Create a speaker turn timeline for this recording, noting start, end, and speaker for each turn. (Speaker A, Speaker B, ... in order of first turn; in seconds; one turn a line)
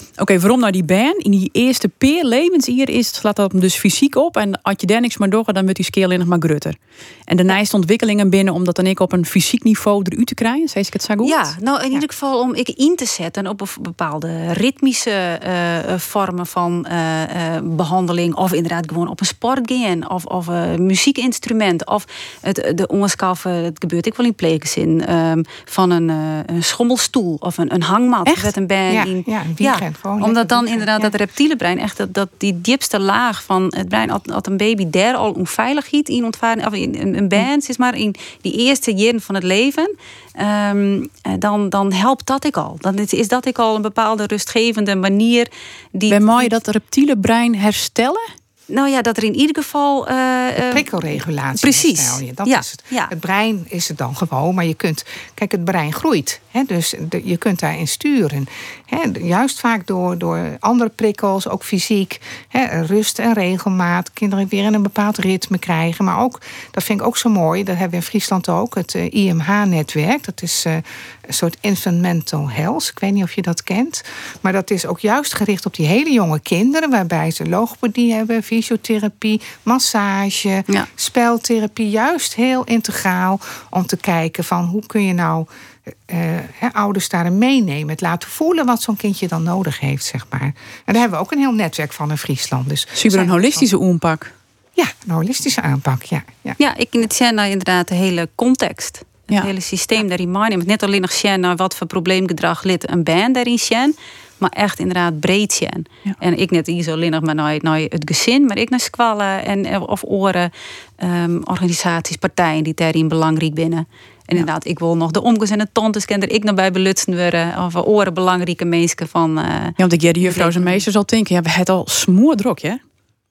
Speaker A: 0.2-6.8
Speaker A: 7.3-11.5
Speaker B: 11.2-46.6
Speaker C: 28.9-31.1
Speaker A: 46.1-48.3
Speaker B: 48.7-50.9
Speaker C: 50.7-93.7
Speaker B: 51.6-53.1
Speaker A: 93.0-94.3
Speaker C: 94.8-96.6
Speaker B: 96.6-120.8
Speaker A: 119.8-122.8